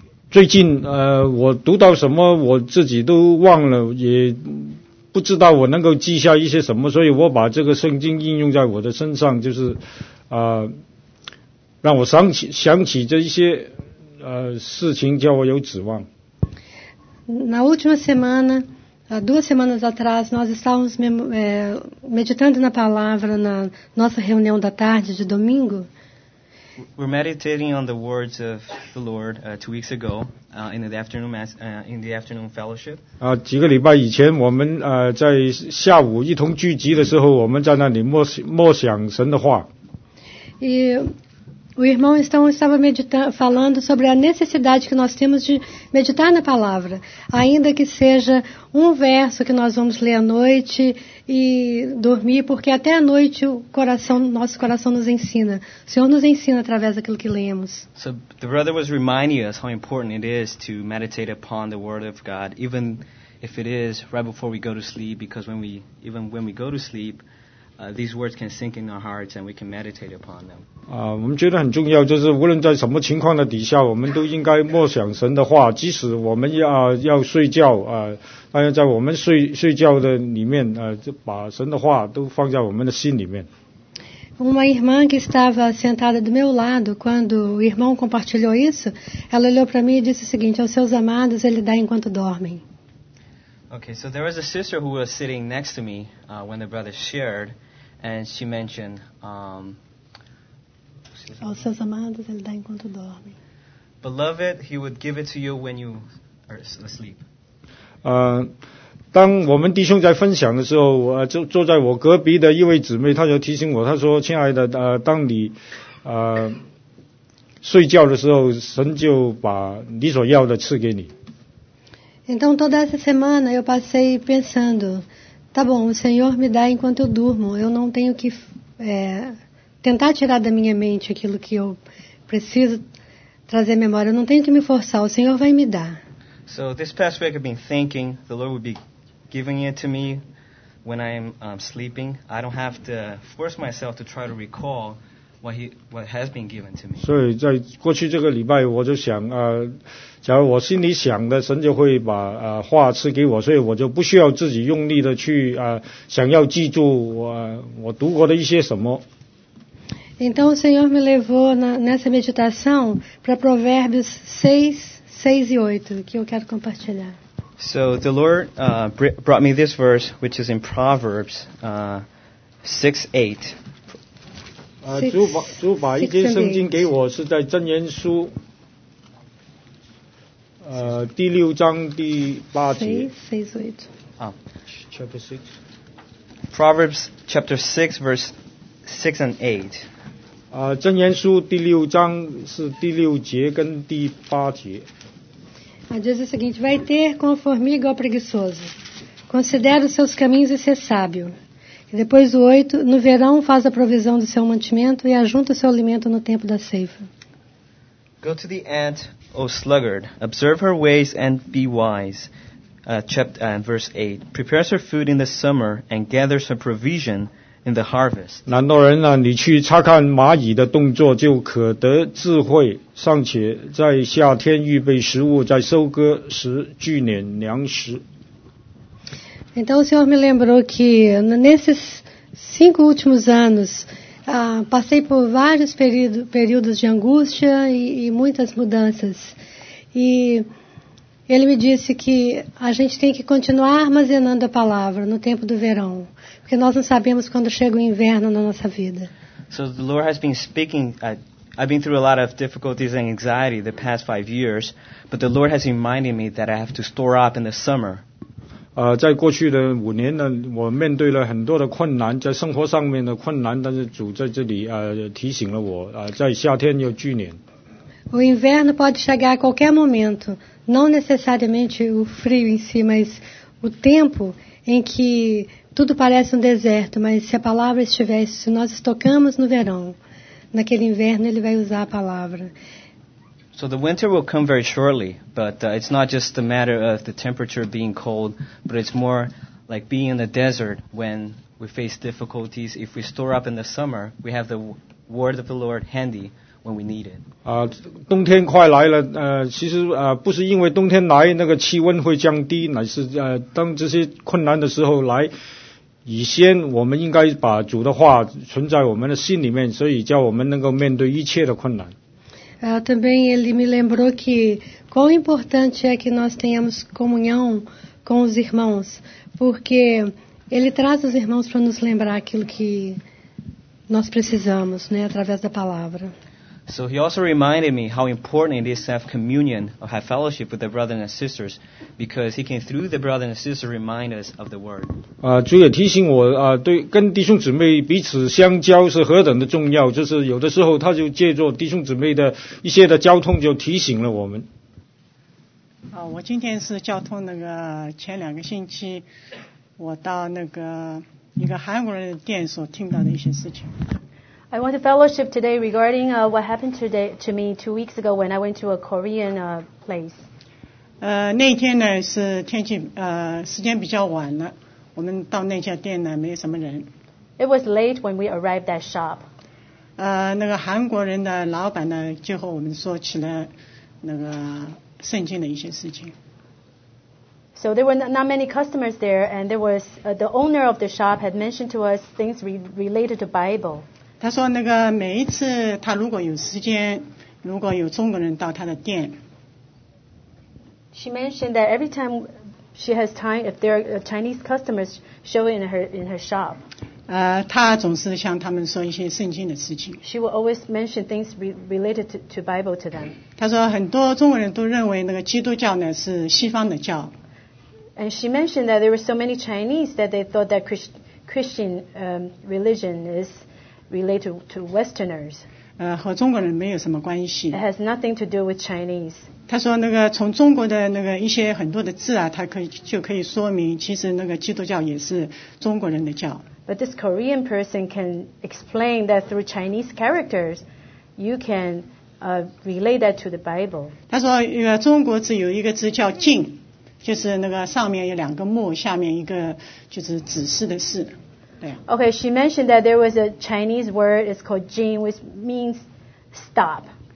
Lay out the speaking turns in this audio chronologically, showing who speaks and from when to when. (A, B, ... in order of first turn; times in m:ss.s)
0:00.3-0:10.8 A
0:11.8-0:16.1 A
0:17.3-0:25.9 B
0:27.0-0:33.0 C
0:33.2-0:39.7 A
0:40.6-0:41.1 B
0:41.8-0:57.8 B
0:58.0-1:07.2 C
1:07.8-1:10.6 C
1:10.9-1:23.5 A
1:24.4-1:32.6 B
1:33.7-1:39.8 C
1:41.2-1:41.5 C
1:41.4-1:43.3 B
1:44.0-1:47.2 C
1:48.0-1:48.5 A
1:49.1-1:56.6 A
1:57.6-2:01.1 A
2:02.3-2:12.8 B
2:13.5-2:16.0 B
2:16.5-2:18.8 C
2:19.3-2:20.2 C
2:20.8-2:27.1 C
2:27.0-2:39.0 A
2:40.2-2:47.2 B
2:47.6-2:52.0 C
2:52.6-2:53.6 C
2:54.8-2:58.4 A
2:55.0-2:56.8 B
3:00.6-3:03.1 A
3:02.7-3:03.9 B
3:04.8-3:05.5 A
3:06.5-3:09.9 C
3:10.5-3:14.9 A
3:15.9-3:18.7 B
3:19.3-3:21.3 B
3:21.9-3:27.1 B
3:28.2-3:32.3 C
3:32.8-3:38.4 C
3:38.5-3:48.0 A
3:49.6-3:59.4 B
3:59.9-4:00.5 B
4:01.3-4:09.1 B
4:09.5-4:18.0 C
4:18.8-4:27.4 A
4:28.1-4:40.0 B
4:40.5-4:42.5 B
4:43.5-4:57.2 C
4:57.4-5:05.3 A
5:06.1-5:11.9 A
5:12.6-5:23.0 B
5:23.9-5:26.1 B
5:26.7-5:35.0 C
5:35.2-5:44.5 A
5:45.9-5:49.1 D
5:49.8-5:53.7 D
5:54.5-6:00.2 E
6:01.0-6:06.9 D
6:07.4-6:09.2 E
6:10.0-6:13.5 D
6:14.0-6:16.1 D
6:17.6-6:23.8 E
6:24.2-6:29.2 D
6:30.9-6:36.6 E
6:37.1-6:40.0 D
6:40.0-6:43.2 E
6:43.4-6:47.1 D
6:48.0-6:55.4 E
6:55.8-6:57.6 D
6:57.5-6:59.3 E
6:59.5-7:06.4 D
7:06.7-7:10.6 E
7:11.2-7:13.9 E
7:14.1-7:21.8 D
7:21.9-7:26.9 E